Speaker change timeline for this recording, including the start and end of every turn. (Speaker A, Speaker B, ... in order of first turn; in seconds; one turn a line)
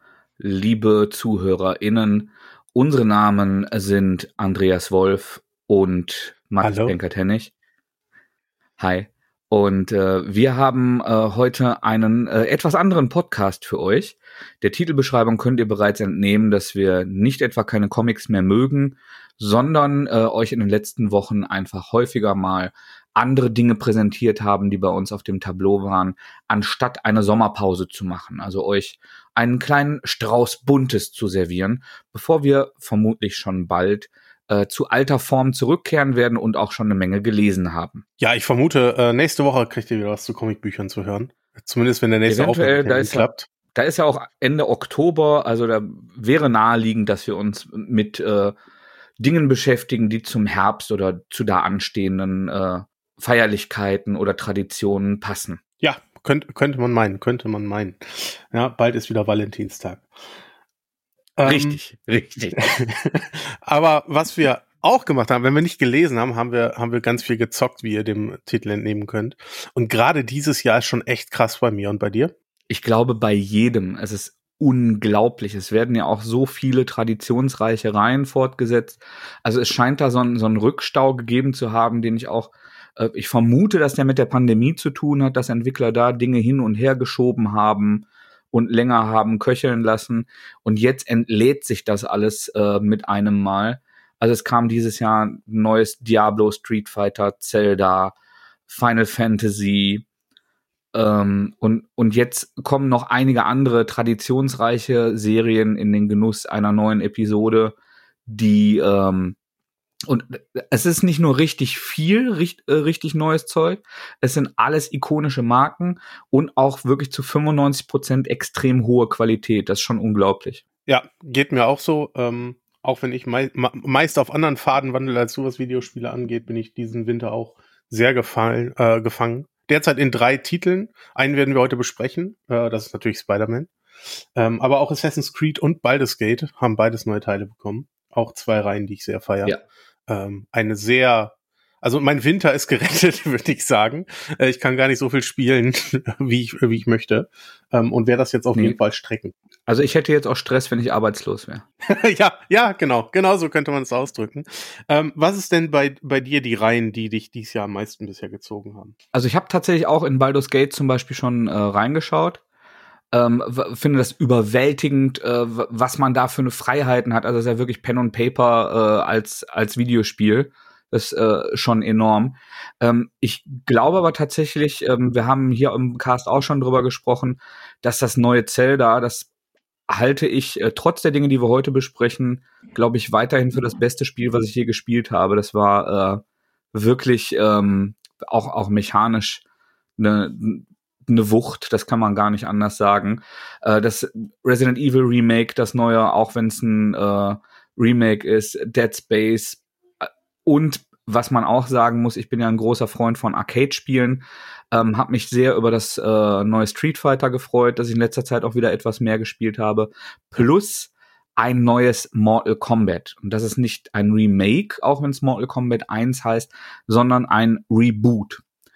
Speaker A: 0.4-7.5
Speaker B: 6.6-6.9
Speaker A: 8.8-38.0
Speaker B: 38.2-43.5
Speaker A: 42.3-48.5
Speaker A: 49.2-55.6
Speaker B: 55.8-60.1
Speaker B: 61.4-61.8
Speaker A: 61.4-62.6
Speaker B: 62.5-72.3
Speaker A: 72.7-98.1
Speaker A: 98.7-100.0
Speaker A: 100.9-107.7
Speaker A: 108.3-109.4
Speaker A: 110.1-120.6
Speaker B: 120.9-133.7
Speaker B: 134.3-139.5
Speaker B: 140.1-149.3
Speaker A: 149.7-151.7
Speaker B: 151.8-158.9
Speaker A: 159.1-162.4
Speaker A: 163.1-179.3
Speaker A: 179.9-186.2
Speaker A: 186.7-189.4
Speaker A: 190.0-218.4